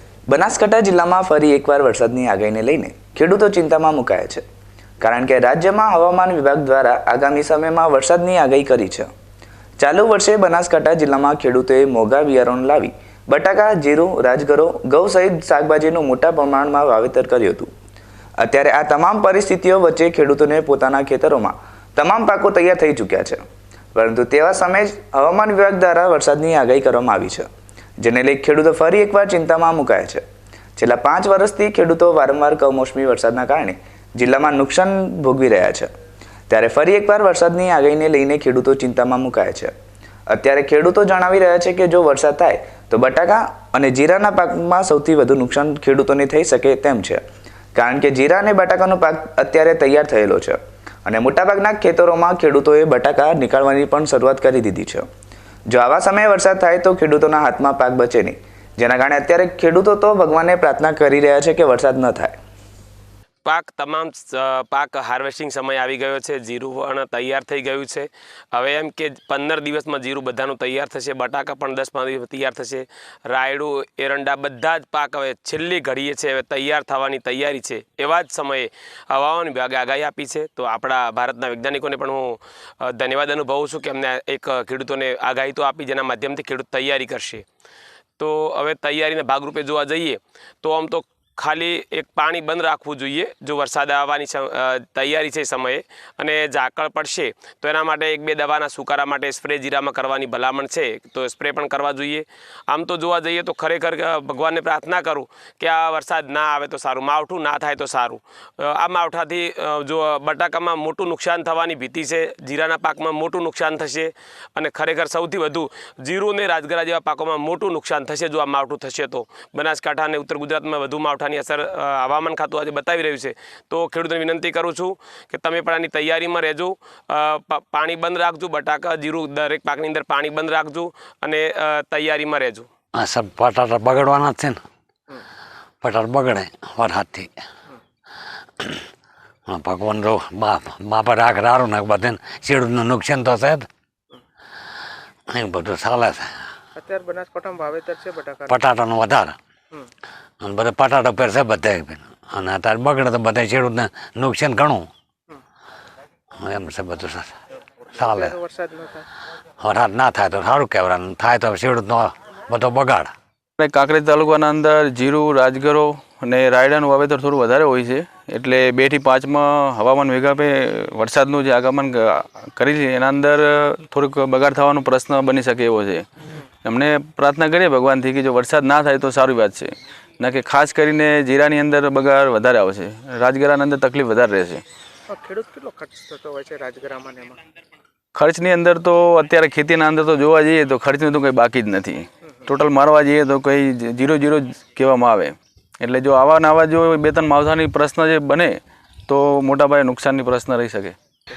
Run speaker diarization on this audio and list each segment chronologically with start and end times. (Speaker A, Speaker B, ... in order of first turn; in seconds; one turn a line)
Speaker A: 0.3-4.4
Speaker A: 5.0-9.1
Speaker A: 9.8-17.7
Speaker A: 18.4-23.4
Speaker A: 23.9-27.5
Speaker A: 28.0-30.2
Speaker A: 30.8-35.9
Speaker A: 36.5-39.7
Speaker A: 40.3-47.2
Speaker A: 47.8-55.1
Speaker A: 55.7-62.4
Speaker B: 63.5-87.5
Speaker B: 88.2-132.7
Speaker C: 132.9-134.6
Speaker C: 135.8-137.3
Speaker C: 139.5-143.7
Speaker C: 145.3-146.3
Speaker D: 146.8-148.5
Speaker C: 148.5-149.4
Speaker C: 150.4-154.9
Speaker C: 156.4-157.3
Speaker C: 158.0-158.3
Speaker D: 158.1-159.0
Speaker C: 159.6-163.1
Speaker E: 163.6-176.1
Speaker E: 176.6-184.6
Speaker D: 185.1-187.4
Speaker E: 188.2-201.0